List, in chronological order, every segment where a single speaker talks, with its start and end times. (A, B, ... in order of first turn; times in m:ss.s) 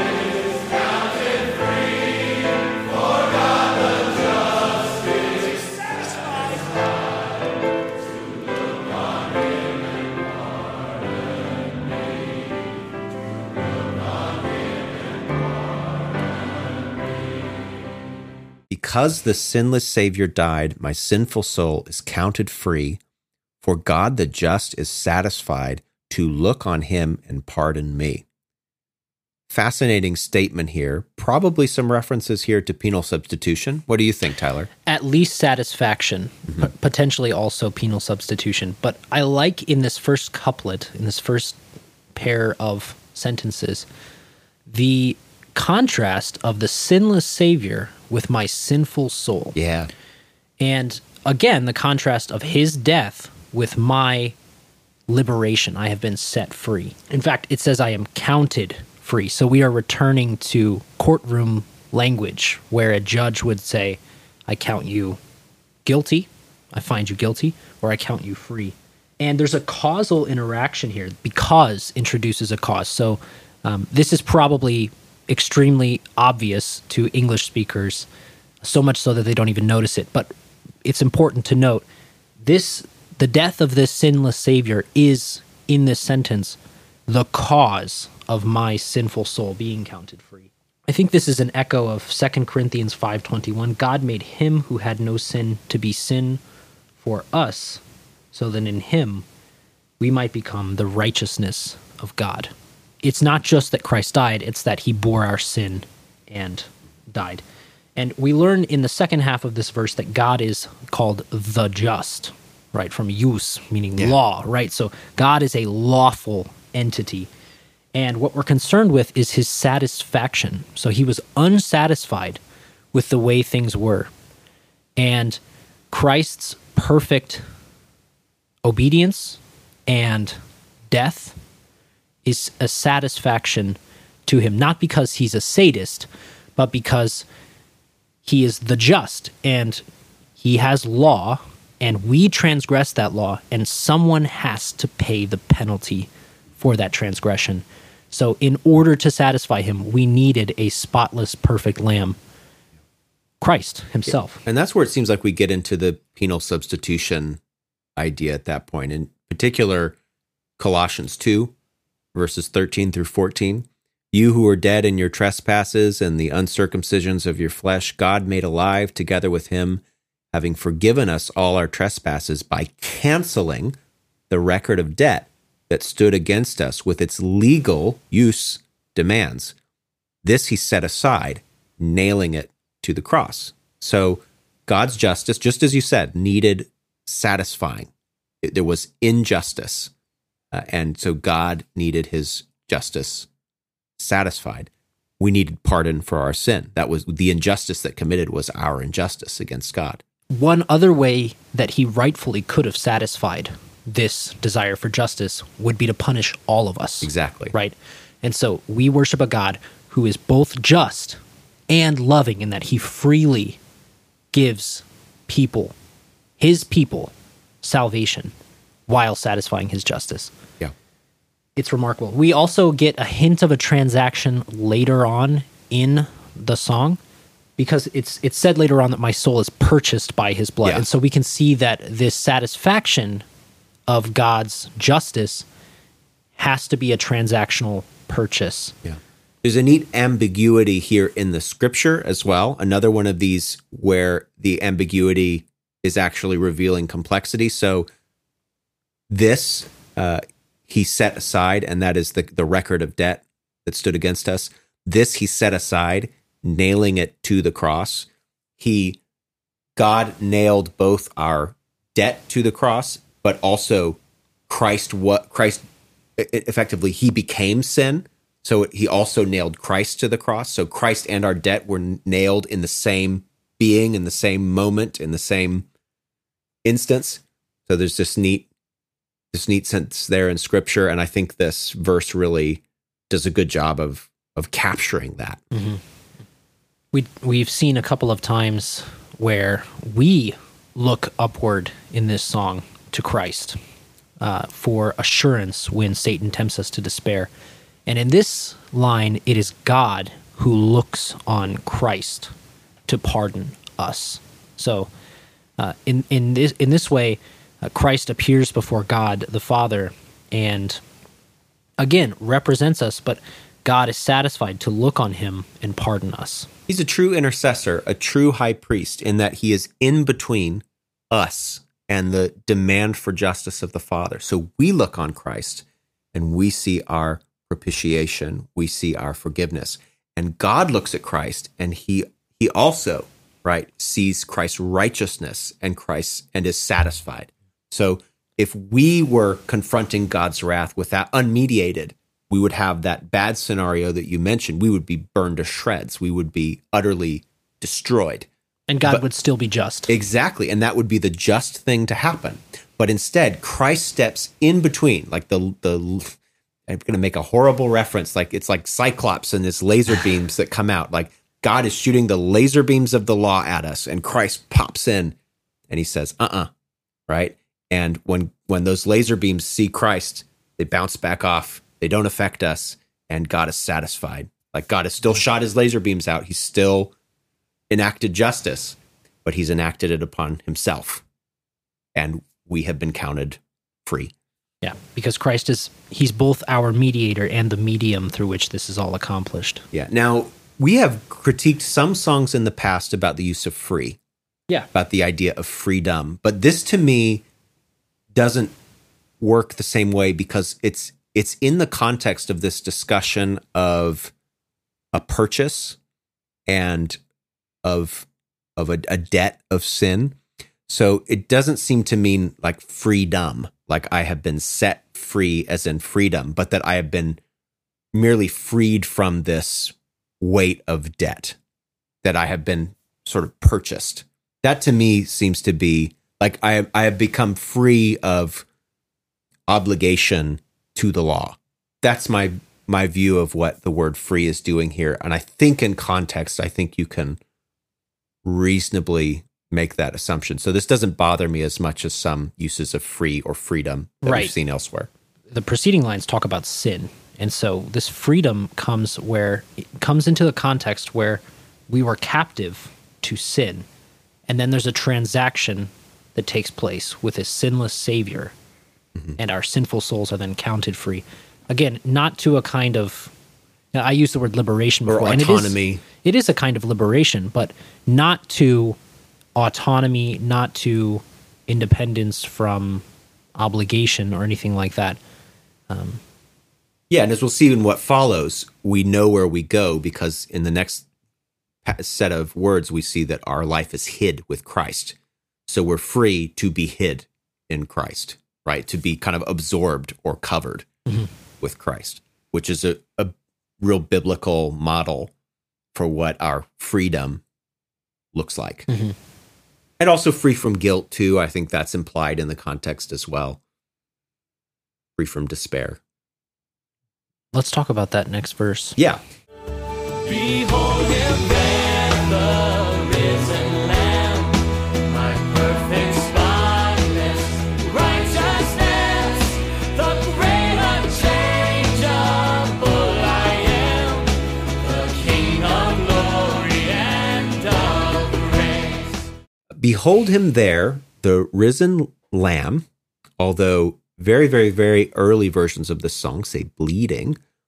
0:18.7-0:23.0 A
0:23.6-0:28.2 A
0:29.5-0:34.7 A
0:34.8-0:41.6 B
0:42.1-0:43.8 B
0:44.7-0:49.6 B
0:49.6-0:49.9 A
0:50.6-0:54.4 B
0:55.1-1:05.2 B
1:05.8-1:18.1 B
1:18.6-1:20.3 B
1:20.8-1:21.8 B
1:22.4-1:26.6 B
1:27.1-1:36.4 B
1:37.0-1:37.8 B
1:38.3-1:39.2 B
1:40.0-1:42.5 B
1:43.0-1:47.4 B
1:48.0-1:57.3 B
1:57.9-2:02.4 B
2:02.9-2:04.1 B
2:05.0-2:05.4 B
2:05.9-2:07.4 B
2:08.6-2:10.4 B
2:10.9-2:11.4 B
2:12.2-2:17.2 B
2:18.2-2:19.8 B
2:20.4-2:32.2 B
2:33.4-2:34.4 B
2:34.1-2:37.4 A
2:38.0-2:40.0 A
2:40.6-2:41.5 A
2:42.1-2:49.8 A
2:50.3-2:53.8 A
2:54.3-2:59.5 A
3:00.2-3:07.9 A
3:08.4-3:09.9 A
3:10.5-3:13.3 A
3:14.0-3:14.7 A
3:15.2-3:20.0 A
3:20.3-3:33.6 B
3:27.0-3:27.5 A
3:34.3-3:35.7 B
3:36.4-3:37.1 B
3:37.6-3:38.3 B
3:38.9-3:40.3 B
3:41.6-3:47.0 B
3:47.6-3:53.2 B
3:53.9-3:55.4 B
3:56.4-3:58.8 B
3:58.8-4:07.9 A
4:09.1-4:18.1 A
4:18.6-4:19.0 A
4:19.8-4:25.6 A
4:26.2-4:35.6 A
4:36.6-4:38.5 A
4:39.3-4:45.4 A
4:45.5-4:45.8 B
4:46.9-4:53.6 B
4:54.2-4:57.3 B
4:57.9-5:02.3 B
5:02.9-5:04.9 B
5:05.6-5:10.8 B
5:11.8-5:16.5 B
5:16.7-5:48.3 A
5:48.7-5:49.9 B
5:49.9-5:56.2 A
5:56.7-6:05.2 A
6:05.7-6:06.5 A
6:07.1-6:16.9 A
6:17.7-6:21.0 A
6:21.9-6:24.1 A
6:24.6-6:29.6 B
6:29.7-6:34.0 A
6:34.7-6:37.2 A
6:38.1-6:38.5 A
6:39.2-6:44.1 A
6:44.9-6:45.8 A
6:46.5-6:47.0 A
6:47.6-6:57.2 A
6:57.9-7:01.4 A
7:02.0-7:08.4 A
7:09.5-7:17.2 A
7:18.2-7:24.9 A
7:24.0-7:24.3 B
7:25.3-7:33.6 B
7:34.3-7:38.3 B
7:39.2-7:43.1 B
7:43.7-7:48.8 B
7:44.9-7:45.8 A
7:49.4-7:52.8 B
7:53.4-7:55.0 B
7:55.7-7:56.0 B
7:56.9-8:00.8 A
8:01.6-8:05.0 A
8:05.5-8:10.7 A
8:11.4-8:15.1 A
8:15.7-8:17.2 A
8:18.1-8:18.7 A
8:18.7-8:18.9 B
8:19.8-8:23.4 A
8:25.0-8:25.8 A
8:27.3-8:28.8 B
8:30.0-8:49.0 C
8:49.6-8:52.7 A
8:53.2-8:57.2 A